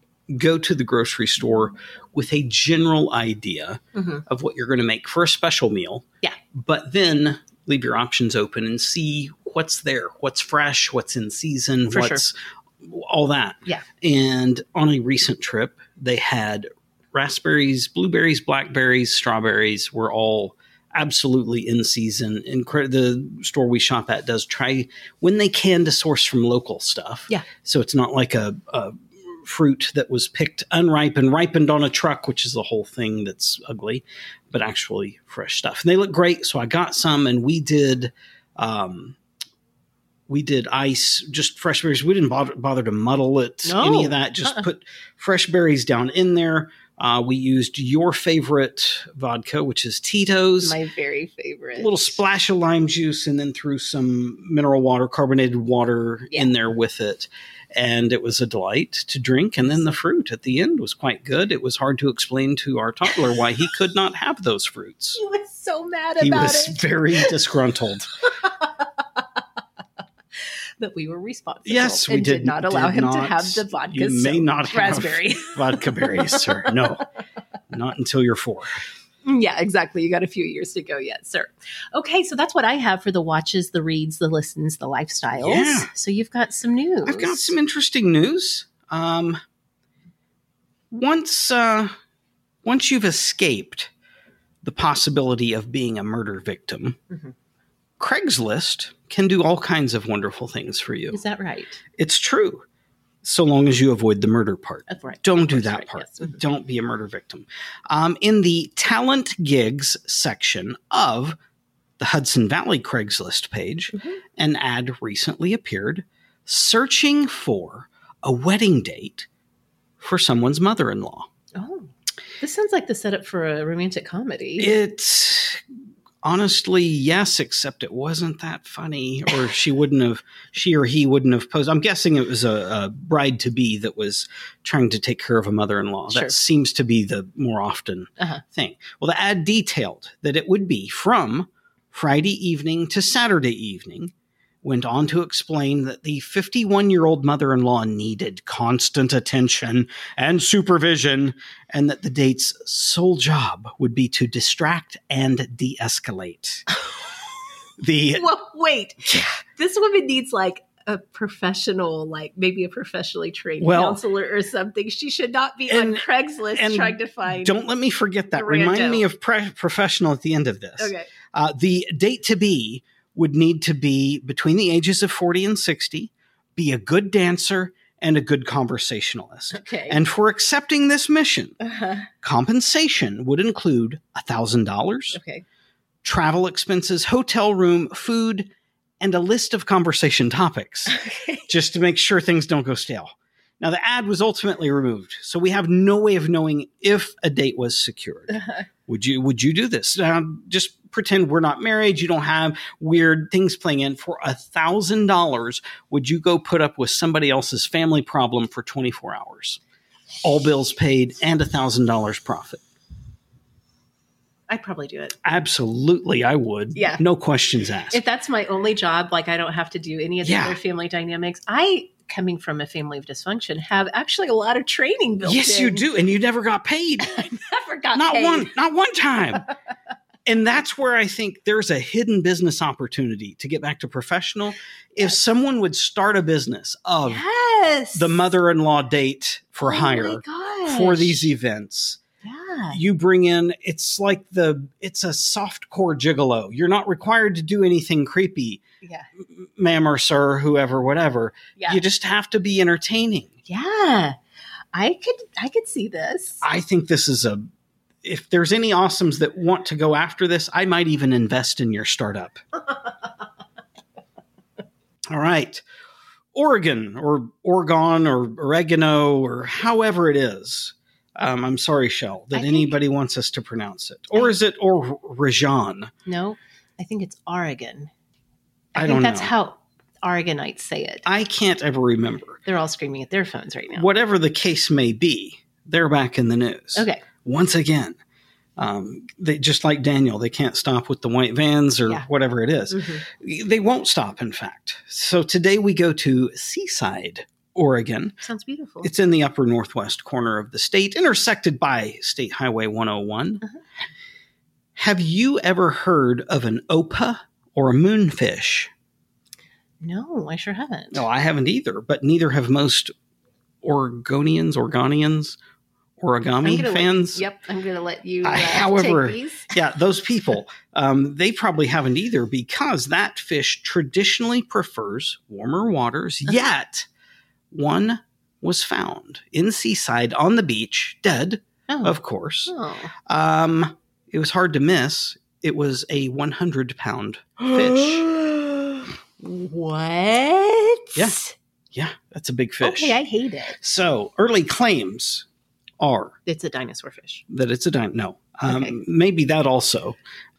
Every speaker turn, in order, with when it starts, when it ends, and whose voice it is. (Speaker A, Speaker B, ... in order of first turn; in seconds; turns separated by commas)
Speaker A: 0.3-39.2, Speaker B: 3.9-4.2, Speaker B: 11.9-12.2, Speaker A: 40.3-50.8, Speaker B: 43.6-44.6, Speaker B: 50.6-52.1, Speaker A: 51.8-65.2, Speaker B: 65.1-67.3, Speaker A: 66.2-68.1, Speaker B: 68.4-69.2, Speaker B: 70.8-76.7, Speaker A: 71.6-77.0, Speaker A: 77.7-78.8, Speaker B: 79.2-87.5, Speaker A: 85.4-85.9, Speaker A: 87.0-89.4, Speaker A: 90.9-91.9, Speaker A: 92.6-93.9, Speaker A: 94.6-97.0, Speaker A: 98.0-101.2, Speaker B: 101.1-101.8, Speaker A: 102.0-102.6, Speaker A: 103.2-111.4, Speaker B: 104.9-106.4, Speaker A: 112.0-119.3, Speaker B: 113.9-114.2, Speaker A: 120.0-121.3, Speaker B: 121.5-124.7, Speaker A: 124.6-125.6, Speaker A: 126.2-144.1, Speaker B: 136.1-136.3, Speaker A: 144.6-156.7, Speaker A: 157.8-158.2, Speaker B: 158.2-167.5, Speaker A: 163.6-164.0, Speaker A: 165.7-181.6, Speaker B: 168.3-169.0, Speaker B: 170.8-171.1, Speaker B: 179.5-180.0, Speaker B: 181.6-182.1, Speaker A: 182.2-185.2, Speaker B: 185.1-185.4, Speaker A: 186.0-190.9, Speaker B: 190.9-191.5, Speaker A: 191.5-209.6, Speaker B: 198.3-198.6, Speaker A: 210.2-212.6, Speaker B: 214.5-215.2, Speaker A: 215.2-218.0, Speaker B: 216.7-217.0, Speaker B: 217.9-225.8, Speaker A: 220.2-220.6, Speaker A: 225.2-227.3, Speaker B: 227.0-228.5, Speaker A: 227.9-229.5, Speaker A: 230.2-237.2, Speaker B: 237.0-238.1, Speaker A: 237.9-242.0, Speaker B: 239.6-241.3, Speaker B: 242.2-242.8, Speaker A: 242.7-248.6, Speaker B: 248.8-249.1, Speaker A: 249.3-253.3, Speaker B: 251.6-251.8, Speaker B: 253.5-254.2, Speaker B: 254.7-256.4, Speaker A: 256.4-257.4, Speaker A: 258.0-262.4, Speaker A: 265.1-265.6, Speaker A: 266.3-275.9, Speaker B: 272.3-272.7, Speaker B: 276.1-277.9, Speaker B: 278.7-281.0, Speaker A: 278.8-279.3, Speaker A: 281.0-282.4, Speaker B: 282.4-283.9, Speaker A: 283.7-288.0, Speaker B: 286.8-287.0, Speaker A: 288.6-298.1, Speaker B: 292.7-293.0, Speaker B: 298.2-298.9, Speaker A: 298.8-303.4, Speaker A: 304.8-308.7, Speaker B: 309.8-311.0, Speaker A: 310.9-312.9, Speaker A: 313.6-315.4, Speaker A: 316.0-317.2, Speaker B: 316.4-319.6, Speaker A: 318.2-326.9, Speaker A: 327.5-332.5, Speaker B: 331.7-332.9, Speaker A: 333.1-338.1, Speaker B: 337.4-341.3, Speaker A: 341.7-343.0, Speaker B: 342.6-343.6, Speaker A: 343.6-345.2, Speaker A: 345.8-346.1, Speaker B: 346.2-347.2, Speaker A: 347.3-350.0, Speaker B: 348.5-348.8